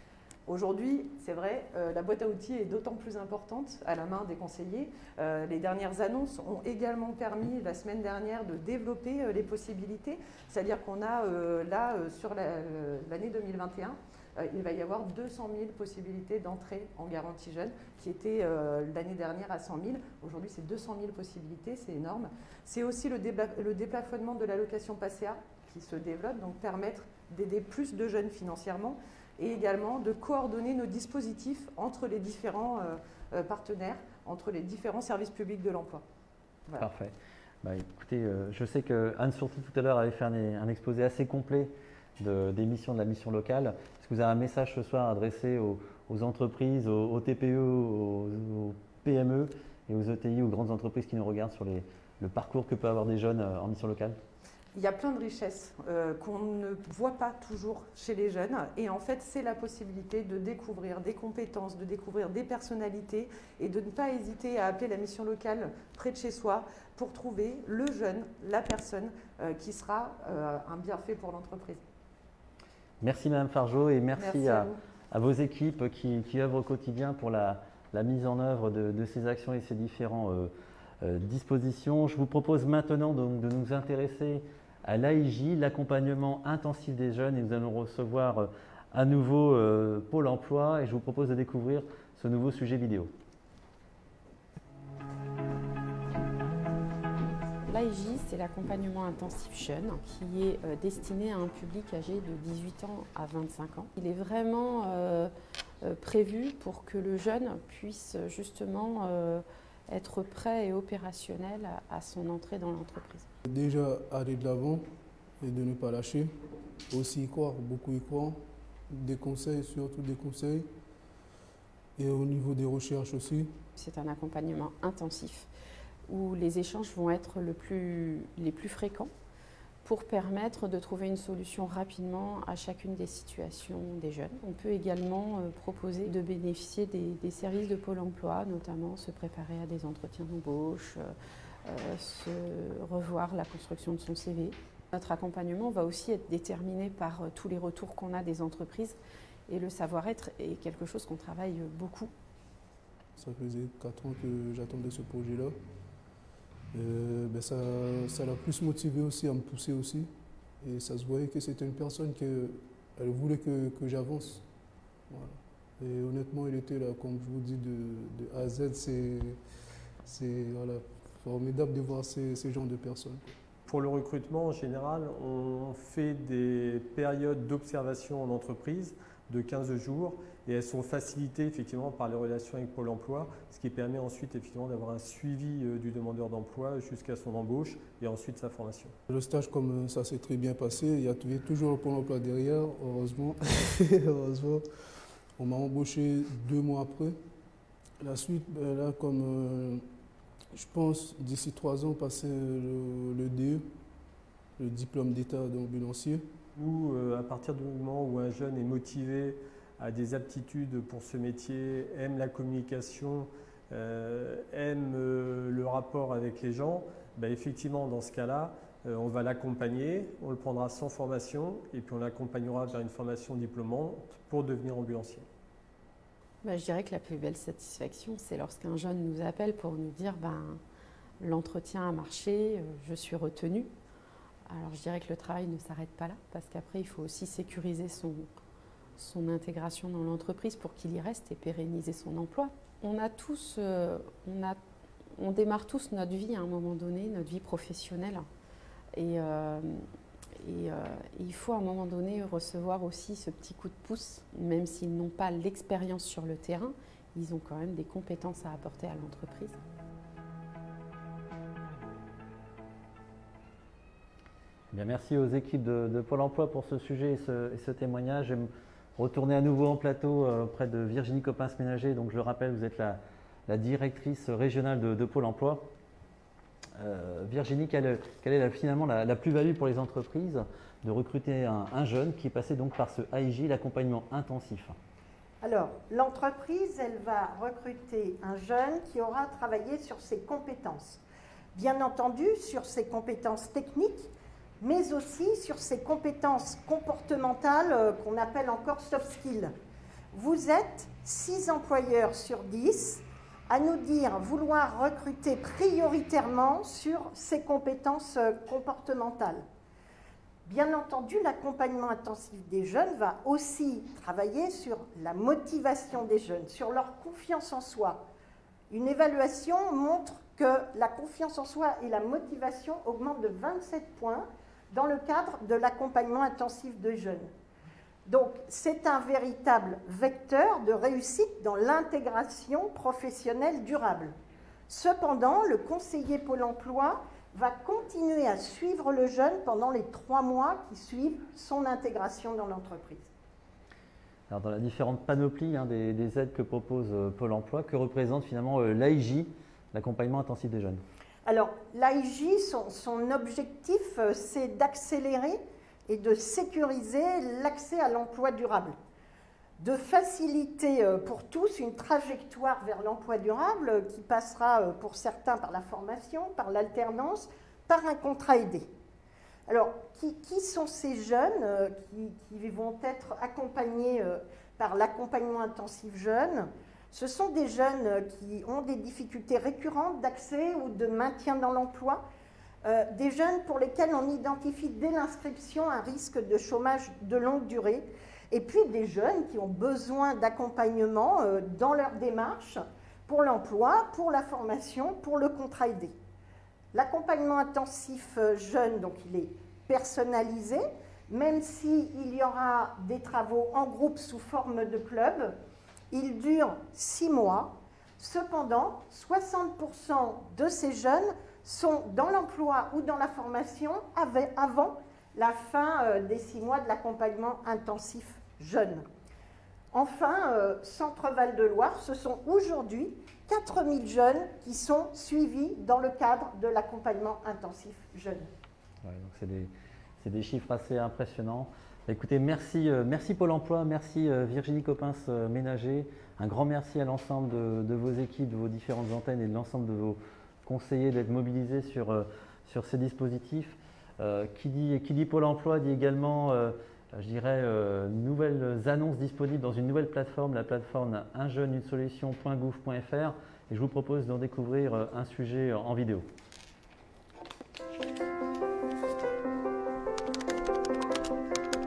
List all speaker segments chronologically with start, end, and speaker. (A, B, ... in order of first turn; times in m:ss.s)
0:00.5-0:36.0 A
0:36.8-0:54.2 B
0:54.7-1:11.8 A
1:13.0-1:20.5 B
1:14.2-1:14.8 A
1:21.0-1:33.1 B
1:37.7-1:45.3 C
1:45.8-1:53.2 C
1:53.4-2:00.7 D
2:02.0-2:03.6 D
2:03.8-2:05.5 C
2:06.1-2:09.1 C
2:09.8-2:21.1 C
2:21.7-2:29.0 C
2:29.5-2:32.1 C
2:33.2-2:35.6 D
2:36.7-2:44.5 D
2:45.0-2:49.4 D
2:50.0-2:53.2 D
2:53.7-3:09.0 E
3:09.1-3:17.2 D
3:18.0-3:19.9 D
3:20.5-3:23.8 D
3:24.6-3:26.3 D
3:26.6-3:45.3 E
3:46.4-3:50.6 C
3:51.2-3:53.7 C
3:54.5-3:58.3 C
3:59.0-4:04.6 C
4:05.2-4:08.3 C
4:09.0-4:09.9 C
4:10.4-4:19.6 C
4:24.7-4:35.7 B
4:36.8-4:44.8 B
4:45.4-4:51.0 F
4:51.5-4:59.5 F
5:00.1-5:09.4 F
5:10.4-5:18.0 F
5:18.7-5:27.3 F
5:28.1-5:34.1 F
5:34.7-5:43.1 F
5:44.3-5:50.8 B
5:51.2-5:58.8 F
5:59.6-6:08.7 F
6:09.5-6:22.0 F
6:22.6-6:35.9 F
6:36.7-6:45.3 F
6:45.9-6:58.8 F
6:59.7-7:08.3 F
7:08.8-7:36.0 B